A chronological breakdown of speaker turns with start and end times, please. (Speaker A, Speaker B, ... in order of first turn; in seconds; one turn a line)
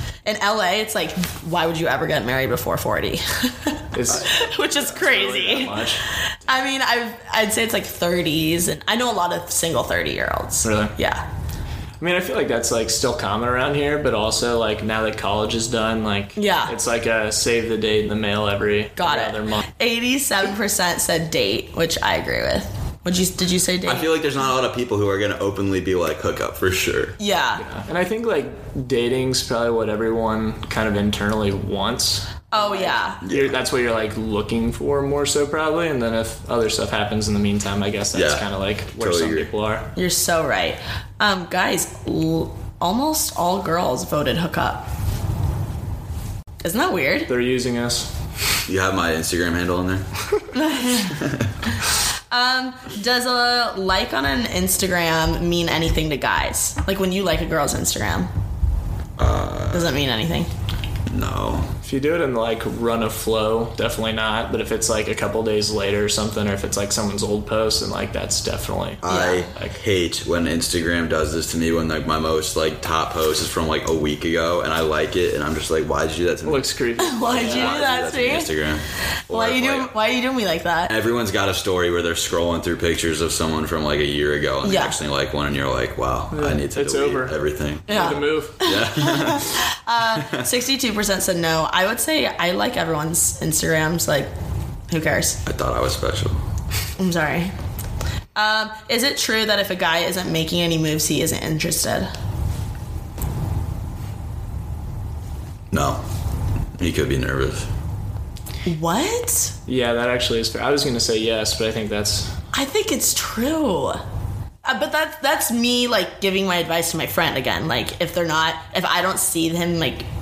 Speaker A: 0.2-11.2
Speaker B: 3.9-6.0
Speaker C: 4.1-4.9
Speaker B: 10.6-10.9
Speaker B: 12.0-19.6
Speaker A: 16.4-16.7
Speaker A: 19.0-24.1
Speaker C: 23.8-27.1
Speaker A: 27.2-27.6
Speaker B: 27.6-39.9
Speaker A: 32.5-33.2
Speaker C: 33.2-33.6
Speaker C: 38.1-39.5
Speaker A: 40.0-44.9
Speaker A: 46.6-47.3
Speaker B: 47.3-48.1
Speaker C: 48.6-50.1
Speaker A: 50.5-51.2
Speaker C: 50.9-51.5
Speaker A: 52.3-58.3
Speaker C: 59.2-59.9
Speaker A: 59.7-60.5
Speaker C: 61.1-61.7
Speaker B: 61.8-69.8
Speaker C: 69.0-79.9
Speaker A: 69.1-69.5
Speaker B: 76.4-77.8
Speaker A: 77.0-78.5
Speaker A: 79.3-80.9
Speaker C: 80.9-90.5
Speaker A: 84.6-85.0
Speaker B: 86.3-88.6
Speaker A: 87.9-94.3
Speaker A: 94.9-95.4
Speaker C: 95.4-96.4
Speaker A: 97.0-97.5
Speaker A: 98.3-102.1
Speaker C: 105.7-106.0
Speaker C: 106.8-107.7
Speaker A: 108.7-109.5
Speaker B: 109.7-112.3
Speaker A: 112.5-114.0
Speaker A: 114.6-120.0